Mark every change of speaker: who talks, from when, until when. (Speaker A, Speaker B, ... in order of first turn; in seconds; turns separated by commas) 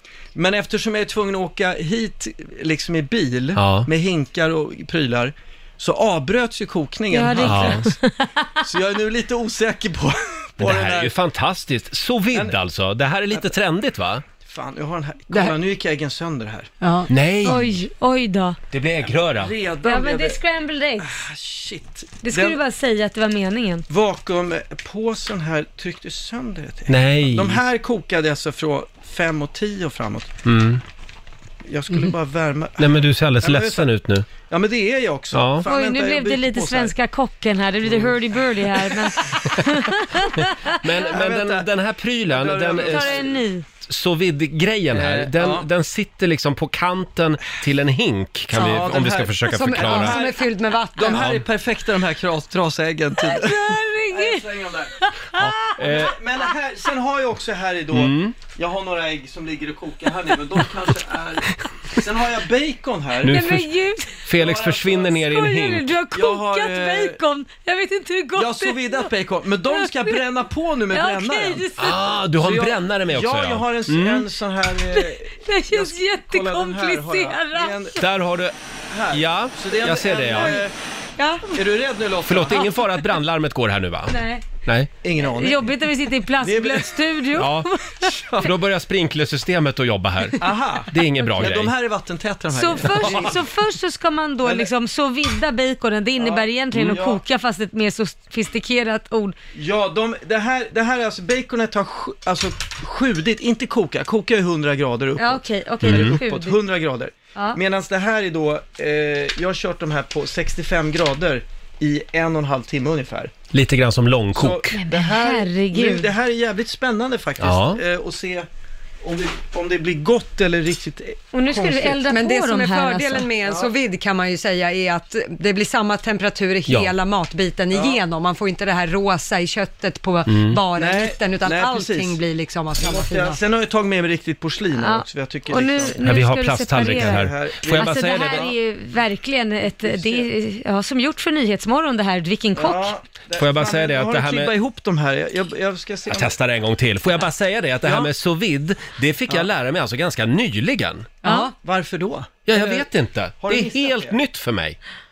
Speaker A: 0.3-8.0, Speaker B: 3.6-3.9, Speaker C: 7.1-8.6, Speaker B: 7.4-7.9, Speaker A: 8.6-11.2, Speaker B: 10.6-14.2, Speaker A: 12.3-12.6, Speaker A: 14.3-16.7, Speaker D: 15.3-15.6, Speaker D: 16.8-17.1, Speaker B: 17.1-17.7, Speaker C: 17.4-18.6, Speaker B: 18.7-19.5, Speaker A: 19.0-20.4, Speaker C: 19.8-21.2, Speaker A: 21.0-22.6, Speaker C: 22.2-23.9, Speaker A: 23.9-30.3, Speaker B: 26.9-27.6, Speaker B: 30.4-30.8, Speaker A: 31.6-37.0, Speaker B: 32.8-34.3, Speaker B: 35.3-35.7, Speaker C: 35.6-40.8, Speaker A: 37.8-39.4, Speaker B: 40.4-43.3, Speaker A: 41.1-41.7, Speaker A: 42.2-43.4, Speaker C: 42.8-43.6, Speaker B: 43.9-50.2, Speaker A: 44.9-45.7, Speaker A: 48.5-55.0, Speaker D: 49.5-51.3, Speaker B: 51.1-51.5, Speaker C: 53.2-56.1, Speaker B: 55.4-56.1, Speaker A: 55.8-63.5, Speaker B: 57.9-58.4, Speaker B: 63.2-63.7, Speaker C: 63.3-64.2, Speaker B: 64.2-65.9, Speaker A: 64.3-65.2, Speaker C: 65.2-69.1, Speaker A: 66.1-67.2, Speaker A: 68.3-71.7, Speaker C: 69.6-70.2, Speaker C: 70.9-72.2, Speaker B: 71.8-74.3, Speaker A: 72.4-78.0, Speaker C: 74.9-78.0, Speaker B: 78.0-78.5, Speaker A: 78.9-80.7, Speaker B: 79.1-80.6, Speaker A: 81.5-82.7, Speaker B: 82.2-84.9, Speaker C: 84.1-84.5, Speaker A: 85.0-87.0, Speaker C: 85.2-88.2, Speaker B: 87.4-87.7, Speaker A: 88.0-88.5, Speaker B: 88.3-91.7, Speaker A: 90.4-93.5, Speaker C: 92.5-99.3, Speaker B: 93.0-93.3, Speaker A: 94.4-94.7, Speaker A: 96.2-97.2, Speaker A: 99.5-113.3, Speaker C: 105.2-106.6, Speaker B: 105.8-106.2, Speaker B: 113.5-114.8, Speaker A: 114.3-118.5, Speaker C: 114.7-116.1, Speaker B: 117.4-117.8, Speaker A: 119.0-122.1, Speaker C: 121.3-123.3, Speaker D: 122.1-133.4, Speaker A: 123.4-123.7, Speaker B: 126.7-126.9, Speaker A: 127.7-128.0, Speaker B: 130.3-130.6, Speaker A: 130.7-132.2, Speaker A: 132.8-136.1, Speaker C: 134.8-142.9, Speaker B: 136.0-138.5, Speaker A: 136.8-138.5, Speaker A: 139.8-140.3, Speaker A: 142.6-146.4, Speaker B: 143.4-144.6, Speaker B: 146.1-151.1, Speaker A: 147.8-148.1, Speaker D: 151.2-151.5, Speaker C: 151.2-151.5, Speaker A: 151.6-152.9, Speaker B: 152.5-154.8, Speaker A: 153.4-154.2